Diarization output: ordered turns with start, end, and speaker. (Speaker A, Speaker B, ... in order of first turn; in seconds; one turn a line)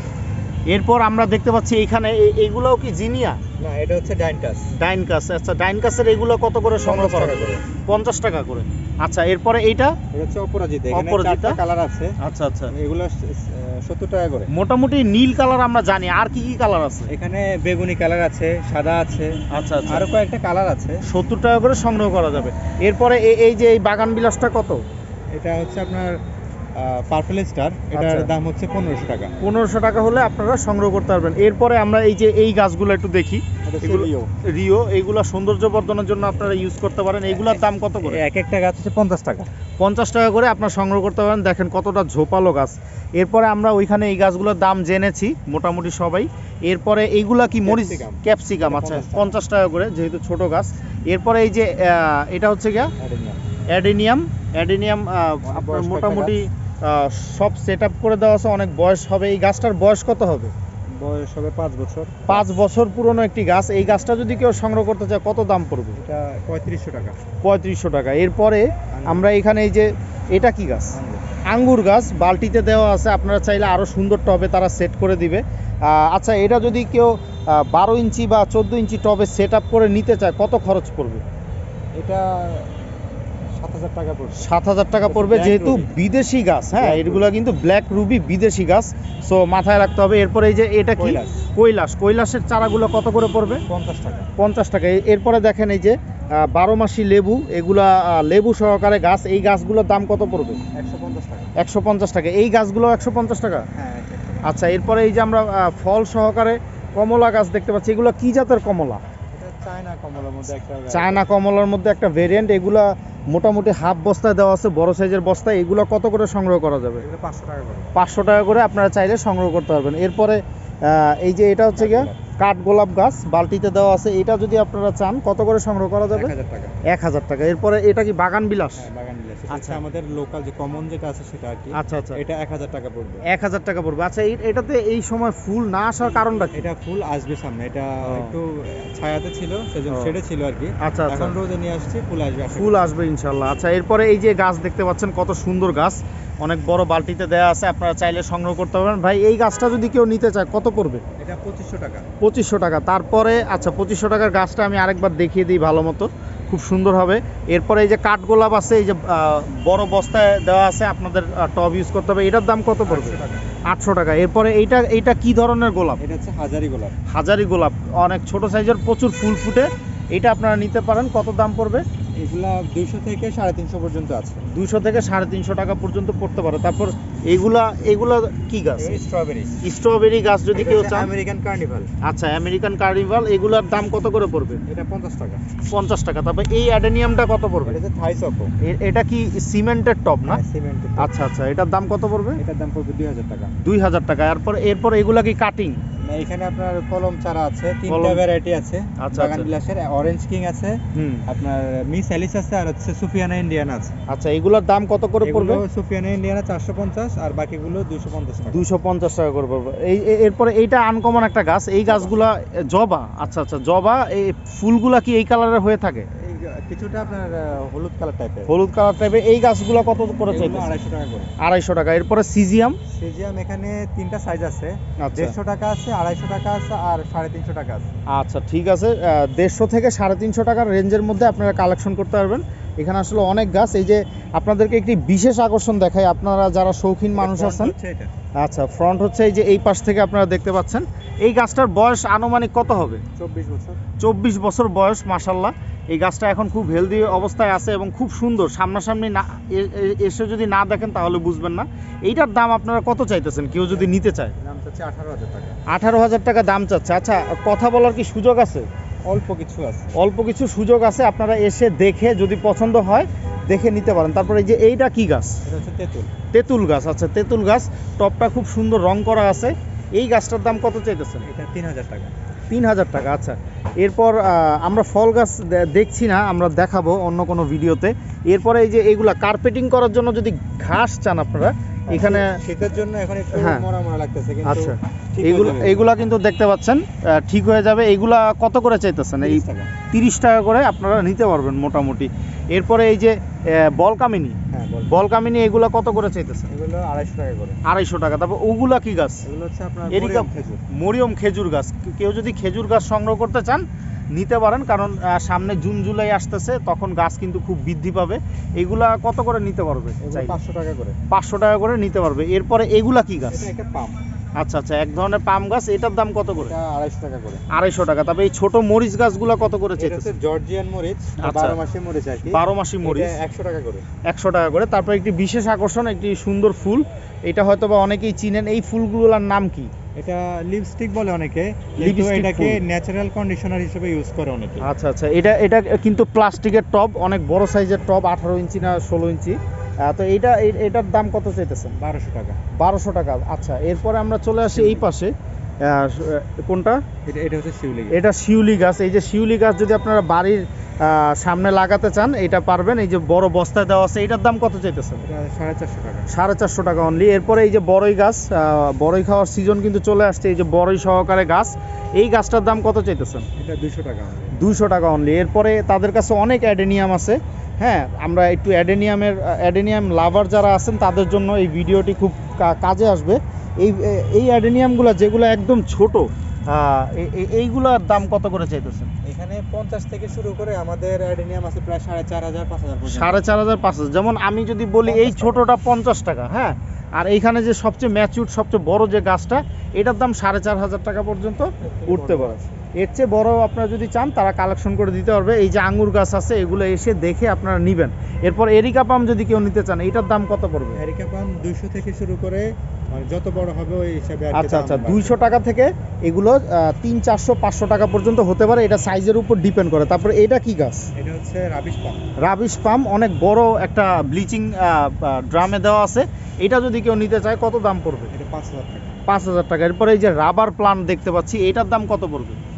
Speaker A: 0.7-3.4
Speaker B: 3.6-4.7
Speaker A: 4.8-9.9
Speaker B: 6.8-7.7
Speaker B: 10.1-12.1
Speaker A: 10.9-11.6
Speaker A: 12.2-12.7
Speaker B: 12.7-14.5
Speaker A: 14.5-17.1
Speaker B: 17.1-21.0
Speaker A: 19.5-20.1
Speaker A: 21.1-24.8
Speaker B: 25.3-26.2
Speaker B: 26.8-29.3
Speaker A: 27.9-28.3
Speaker A: 29.4-38.2
Speaker B: 33.6-34.3
Speaker B: 37.3-39.5
Speaker A: 39.8-52.9
Speaker B: 47.6-49.3
Speaker B: 53.0-53.4
Speaker A: 53.7-60.5
Speaker B: 55.4-56.4
Speaker B: 61.0-62.5
Speaker A: 62.3-66.0
Speaker B: 66.0-67.2
Speaker A: 67.4-71.0
Speaker B: 68.9-69.3
Speaker B: 70.9-71.2
Speaker A: 71.5-81.2
Speaker B: 82.0-82.7
Speaker B: 83.5-84.5
Speaker A: 84.4-93.6
Speaker B: 85.0-85.9
Speaker B: 86.7-87.3
Speaker B: 91.0-91.4
Speaker B: 93.7-94.3
Speaker A: 94.4-100.6
Speaker B: 100.7-101.5
Speaker A: 101.6-103.7
Speaker B: 103.7-104.5
Speaker A: 104.4-109.0
Speaker B: 109.3-111.3
Speaker A: 110.9-117.0
Speaker B: 117.0-117.9
Speaker A: 117.9-126.3
Speaker B: 121.8-122.2
Speaker B: 126.1-126.8
Speaker A: 126.9-128.8
Speaker B: 128.8-133.2
Speaker A: 129.5-129.8
Speaker A: 131.7-132.2
Speaker A: 133.3-136.7
Speaker B: 136.1-142.9
Speaker A: 138.0-138.3
Speaker A: 140.8-141.3
Speaker A: 142.5-151.0
Speaker B: 151.2-152.1
Speaker A: 152.2-166.0
Speaker B: 162.8-163.4
Speaker B: 166.0-166.9
Speaker A: 167.1-171.8
Speaker B: 172.2-174.4
Speaker A: 174.5-179.0
Speaker B: 178.8-179.6
Speaker A: 179.6-181.1
Speaker B: 180.5-181.9
Speaker A: 182.0-184.6
Speaker B: 184.7-185.4
Speaker A: 185.7-187.8
Speaker B: 187.6-188.5
Speaker A: 188.6-190.4
Speaker B: 190.2-191.2
Speaker A: 191.0-192.4
Speaker B: 192.4-193.5
Speaker A: 193.6-195.8
Speaker B: 196.0-203.9
Speaker A: 197.9-198.2
Speaker A: 199.0-199.5
Speaker A: 200.9-201.2
Speaker A: 204.1-205.6
Speaker B: 205.2-208.7
Speaker A: 208.5-216.1
Speaker B: 211.8-212.2
Speaker B: 216.2-218.5
Speaker A: 218.5-220.7
Speaker B: 220.2-221.3
Speaker A: 221.4-222.8
Speaker B: 222.9-227.9
Speaker A: 225.0-225.3
Speaker A: 228.1-237.7
Speaker B: 237.2-238.1
Speaker A: 238.4-243.0
Speaker B: 243.2-243.8
Speaker A: 244.0-254.3
Speaker B: 253.7-255.6
Speaker A: 255.7-258.7
Speaker B: 259.1-259.9
Speaker A: 259.9-265.4
Speaker B: 265.4-266.1
Speaker A: 266.3-271.3
Speaker B: 271.2-272.1
Speaker A: 272.5-282.3
Speaker B: 281.9-285.9
Speaker A: 283.3-283.6
Speaker A: 284.4-294.4
Speaker B: 289.2-289.7
Speaker B: 294.5-295.1
Speaker A: 294.9-296.5
Speaker B: 296.5-297.6
Speaker A: 297.6-299.2
Speaker B: 299.2-300.6
Speaker A: 299.9-303.6
Speaker A: 304.1-310.4
Speaker B: 310.0-311.0
Speaker A: 311.1-313.5
Speaker B: 313.3-314.0
Speaker A: 314.4-316.5
Speaker B: 316.3-317.4
Speaker A: 317.5-320.1
Speaker B: 319.8-323.8
Speaker A: 321.2-321.6
Speaker A: 322.3-323.1
Speaker A: 324.1-329.7
Speaker B: 330.0-334.7
Speaker A: 331.8-332.6
Speaker A: 334.6-341.8
Speaker B: 341.7-342.4
Speaker A: 342.5-345.1
Speaker B: 344.5-344.9
Speaker A: 345.6-346.8
Speaker B: 347.1-348.0
Speaker A: 347.9-355.0
Speaker B: 355.0-356.1
Speaker A: 356.1-363.3
Speaker B: 363.4-364.4
Speaker A: 364.3-378.9
Speaker B: 379.0-383.4
Speaker A: 382.9-400.8
Speaker B: 384.9-385.4
Speaker B: 391.6-392.6
Speaker B: 400.7-405.3
Speaker A: 404.3-410.9
Speaker B: 410.9-412.0
Speaker A: 412.2-418.1
Speaker B: 418.1-419.1
Speaker A: 419.1-422.4